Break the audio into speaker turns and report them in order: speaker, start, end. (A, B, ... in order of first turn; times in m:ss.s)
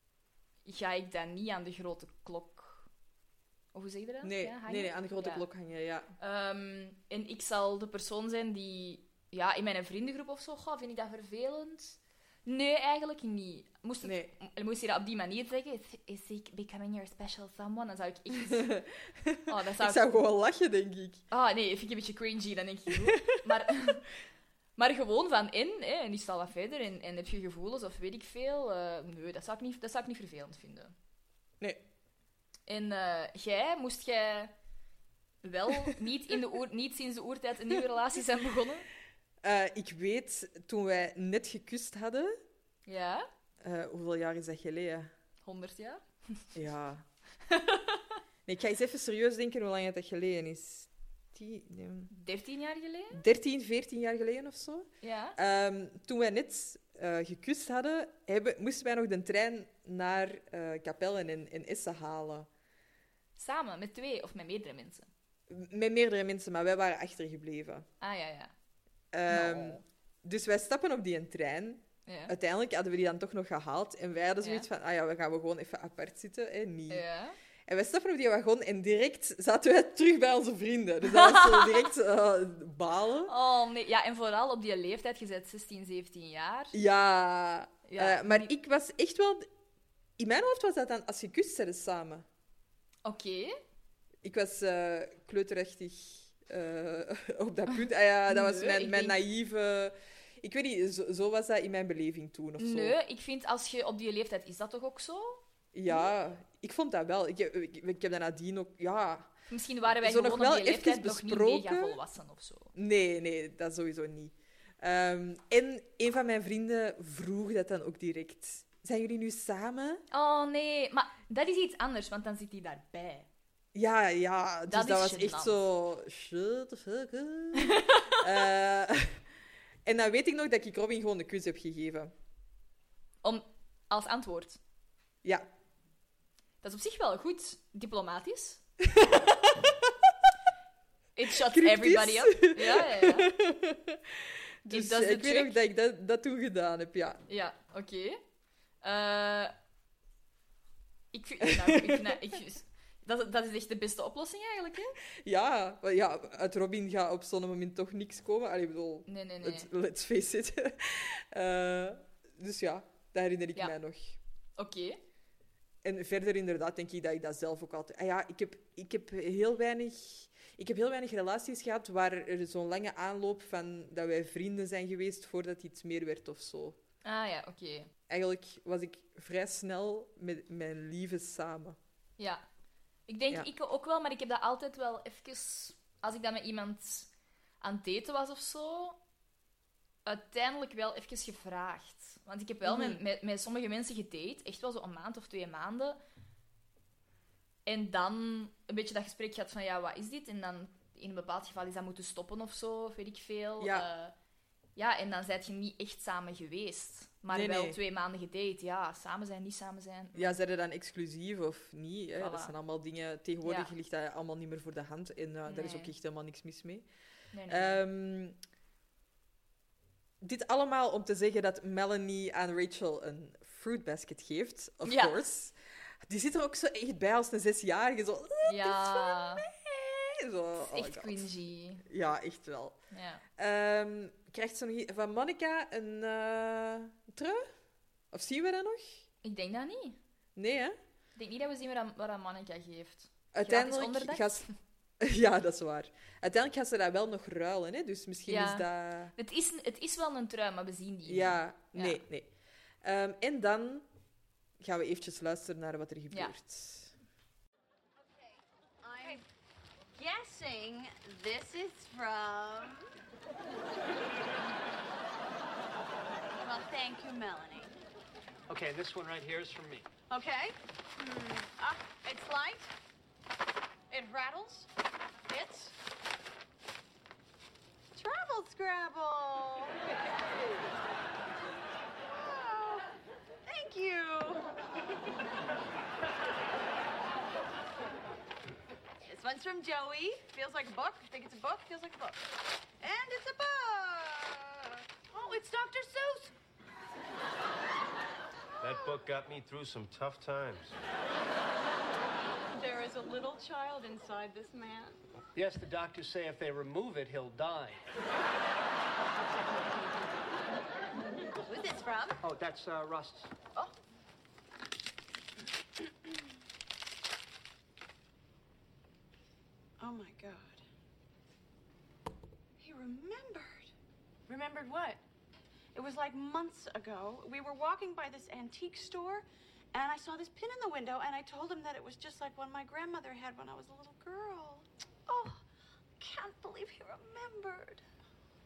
0:00.6-0:02.9 A
0:03.7-0:05.4 A
0:04.2-0:06.1 B
0:06.2-0:18.7 A
0:14.0-0:14.3 B
0:18.6-0:21.2 B
0:19.5-0:20.2 A
0:21.3-0:24.0 A
0:24.8-0:30.9 A
0:32.7-0:34.5 A
0:35.4-0:38.8 A
0:39.4-0:42.4 B
0:42.8-0:43.3 A
0:43.6-0:45.1 B
0:45.4-0:46.4 A
0:46.5-0:47.0 B
0:47.5-0:48.0 A
0:48.4-0:52.1 B
0:52.1-0:53.2 A
0:53.1-1:02.5 B
0:55.0-0:55.4 A
1:03.4-1:05.1 A
1:05.5-1:07.8 B
1:08.0-1:08.5 A
1:09.1-1:17.0 B
1:09.3-1:09.8 A
1:12.0-1:12.3 A
1:14.4-1:14.7 A
1:16.9-1:17.3 A
1:17.7-1:23.3 B
1:21.0-1:21.9 A
1:23.2-1:26.7 A
1:26.7-1:29.5 B
1:27.8-1:28.5 A
1:30.2-1:32.2 B
1:33.0-1:33.6 A
1:34.2-1:43.0 B
1:38.3-1:39.2 A
1:42.6-1:46.1 A
1:45.7-1:49.3 B
1:49.5-1:52.7 A
1:50.0-1:52.0 B
1:52.7-2:00.0 B
2:00.1-2:03.3 A
2:03.7-2:09.2 B
2:04.7-2:05.6 A
2:07.7-2:08.1 A
2:09.8-2:12.1 B
2:13.2-2:14.6 A
2:16.6-2:18.6 A
2:21.2-2:23.3 A
2:21.4-2:27.2 B
2:24.7-2:25.6 A
2:27.3-2:28.2 A
2:28.8-2:29.5 A
2:31.1-2:35.0 A
2:31.5-2:32.0 B
2:35.2-2:44.2 B
2:39.1-2:39.7 A
2:44.6-2:45.0 A
2:45.8-2:56.8 B
2:57.0-2:57.9 A
2:58.1-3:01.8 B
3:02.2-3:02.4 A
3:03.1-3:07.1 A
3:07.6-3:09.0 A
3:10.0-3:16.0 A
3:12.6-3:13.0 B
3:17.6-3:24.1 A
3:23.6-3:23.9 B
3:24.8-3:30.4 A
3:27.3-3:27.8 B
3:30.1-3:36.8 B
3:32.2-3:32.5 A
3:33.4-3:33.7 A
3:35.5-3:35.9 A
3:37.3-3:37.8 A
3:37.5-3:38.3 B
3:40.2-3:45.5 B
3:44.8-3:45.2 A
3:46.0-3:51.3 B
3:48.5-3:49.4 A
3:50.6-3:51.8 A
3:51.8-3:52.8 B
3:52.9-3:53.2 A
3:53.4-3:57.5 B
3:58.1-3:59.0 B
3:59.2-4:00.0 A
4:00.4-4:00.8 B
4:01.1-4:04.5 A
4:03.3-4:04.4 B
4:05.0-4:09.1 B
4:08.3-4:12.0 A
4:11.0-4:12.3 B
4:12.8-4:13.8 B
4:14.6-4:16.9 B
4:18.8-4:19.2 C
4:20.0-4:22.9 C
4:26.4-4:27.8 C
4:28.5-4:29.9 D
4:30.1-4:32.7 C
4:33.9-4:34.7 C
4:35.3-4:35.7 C
4:37.9-4:39.8 C
4:42.2-4:42.9 C
4:43.4-4:44.5 C
4:49.0-4:52.2 C
4:52.8-4:56.3 C
4:58.6-5:00.8 E
5:02.5-5:05.0 C
5:05.3-5:07.8 D
5:11.4-5:12.2 C
5:12.2-5:13.3 D
5:19.8-5:20.6 C
5:22.6-5:23.7 C
5:24.3-5:25.0 C
5:25.7-5:35.4 C
5:36.0-5:37.8 C